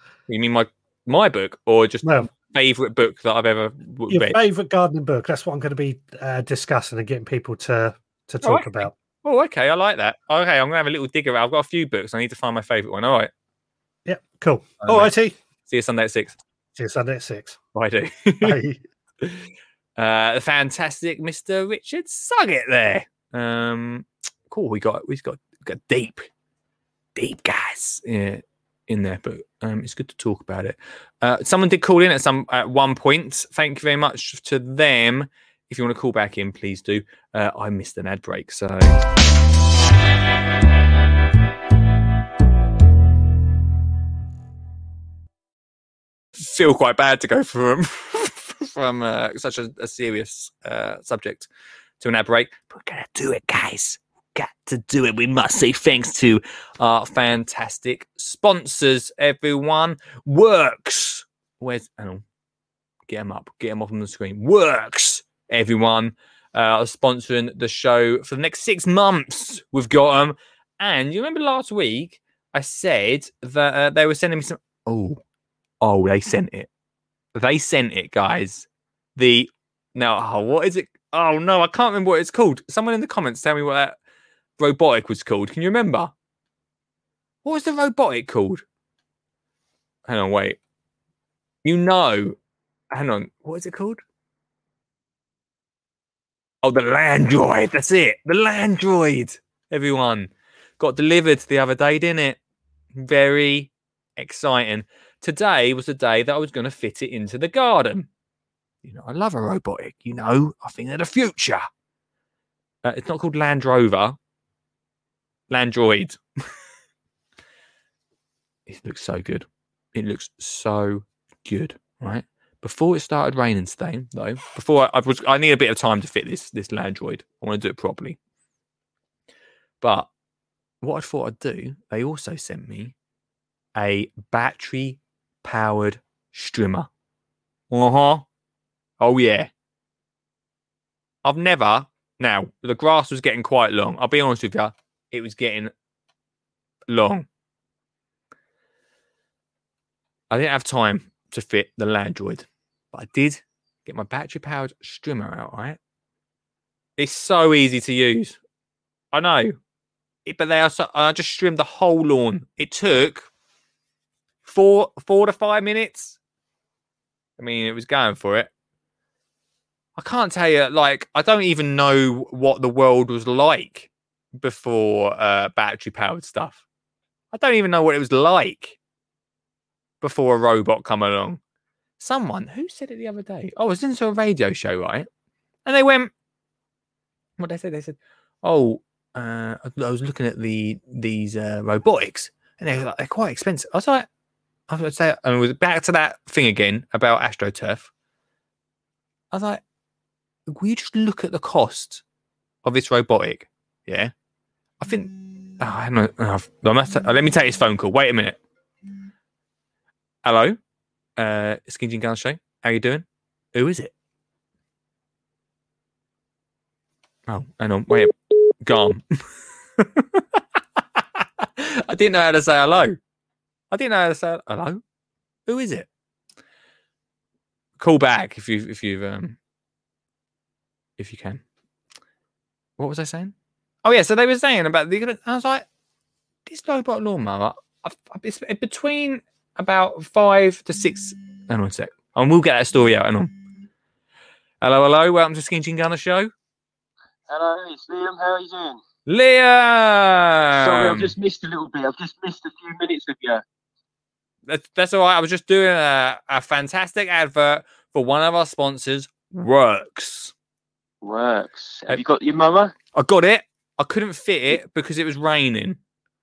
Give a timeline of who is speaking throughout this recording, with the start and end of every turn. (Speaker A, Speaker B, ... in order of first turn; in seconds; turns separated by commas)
Speaker A: 0.3-4.4, Speaker B: 2.0-2.3, Speaker B: 4.1-8.9, Speaker A: 8.4-13.3, Speaker B: 14.1-15.3, Speaker A: 14.8-15.1, Speaker A: 15.7-16.4, Speaker B: 16.8-17.6, Speaker A: 17.7-18.6, Speaker B: 18.4-18.8, Speaker A: 20.0-26.3, Speaker A: 27.1-39.0, Speaker A: 46.4-51.5, Speaker A: 52.0-62.2, Speaker A: 63.1-75.2, Speaker A: 75.8-76.7, Speaker A: 77.3-84.0, Speaker A: 84.6-86.1, Speaker A: 87.4-88.6, Speaker A: 90.1-90.6, Speaker A: 91.6-92.3, Speaker A: 92.9-94.0, Speaker A: 96.6-102.4, Speaker A: 102.9-108.1, Speaker A: 108.8-111.7, Speaker A: 112.8-114.2, Speaker A: 115.5-116.2, Speaker A: 118.7-128.2, Speaker A: 129.8-130.1, Speaker A: 130.8-132.9, Speaker A: 133.8-136.9, Speaker A: 137.7-138.2, Speaker A: 139.0-139.5, Speaker A: 141.2-145.7, Speaker A: 146.9-147.2, Speaker A: 150.3-155.8, Speaker A: 157.0-158.4, Speaker A: 159.1-159.6, Speaker A: 160.2-163.3, Speaker A: 164.4-166.2, Speaker A: 167.4-168.5, Speaker A: 170.0-176.6, Speaker A: 177.3-178.8, Speaker A: 180.0-181.4, Speaker A: 182.0-185.1, Speaker A: 185.7-186.1, Speaker A: 187.4-194.1, Speaker A: 194.7-197.9, Speaker A: 199.3-199.6, Speaker A: 200.5-202.0, Speaker A: 202.6-204.1, Speaker A: 204.8-208.4, Speaker A: 210.2-210.6, Speaker A: 211.2-213.9, Speaker A: 217.3-219.2, Speaker A: 219.8-220.4, Speaker A: 220.9-223.0, Speaker A: 223.7-224.8, Speaker A: 225.5-225.9, Speaker A: 227.8-229.4, Speaker A: 231.0-231.4, Speaker A: 232.8-235.6, Speaker A: 236.4-243.3, Speaker A: 244.6-246.3, Speaker C: 247.3-248.8, Speaker A: 249.1-251.1, Speaker C: 250.6-253.4, Speaker A: 254.5-260.3, Speaker C: 261.0-262.7, Speaker A: 262.9-265.8